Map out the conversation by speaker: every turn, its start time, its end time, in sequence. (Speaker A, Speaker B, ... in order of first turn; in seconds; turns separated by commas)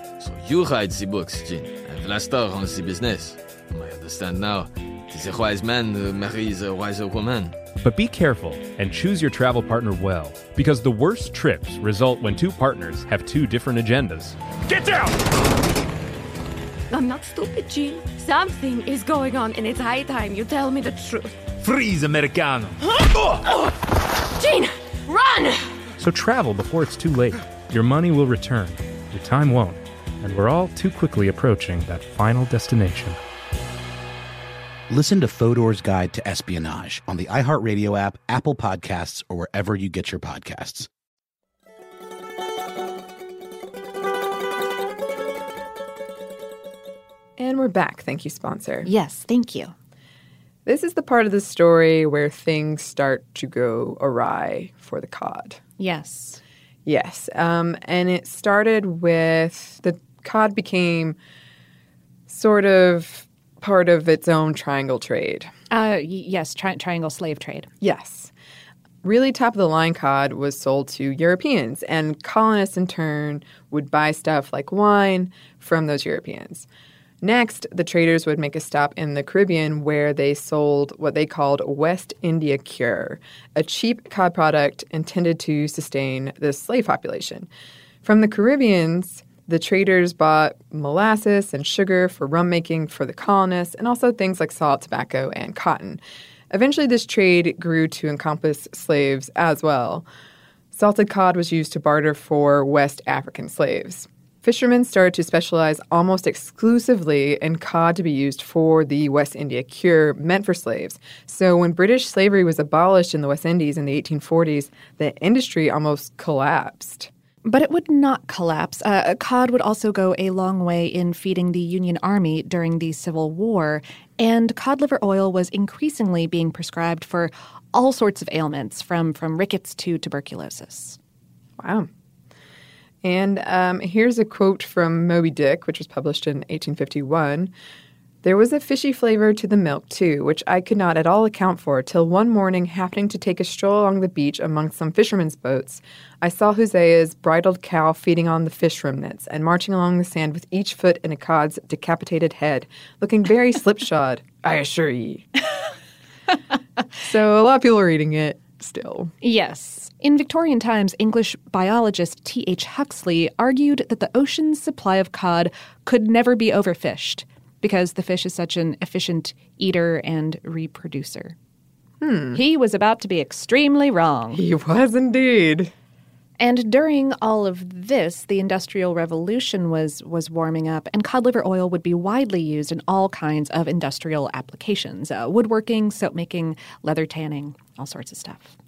Speaker A: 0.2-7.6, Speaker B: 7.8-14.4, Speaker C: 16.9-21.5, Speaker C: 22.8-23.8, Speaker C: 24.4-25.8, Speaker B: 26.0-33.2, Speaker D: 34.9-40.9, Speaker E: 47.4-48.9, Speaker F: 48.9-49.7, Speaker E: 50.7-55.6, Speaker F: 55.8-56.4, Speaker E: 56.9-61.2, Speaker E: 62.3-65.5, Speaker F: 65.7-67.7, Speaker E: 67.8-68.3, Speaker E: 69.0-76.7, Speaker E: 77.2-87.5, Speaker E: 88.0-96.0, Speaker E: 96.5-100.1, Speaker E: 100.7-117.1, Speaker F: 117.5-131.0, Speaker E: 131.6-131.9, Speaker E: 133.0-137.5, Speaker E: 138.2-155.3, Speaker E: 157.0-159.1, Speaker F: 159.2-171.3, Speaker E: 172.0-172.4, Speaker F: 172.3-174.4, Speaker E: 174.3-175.7, Speaker F: 176.4-188.6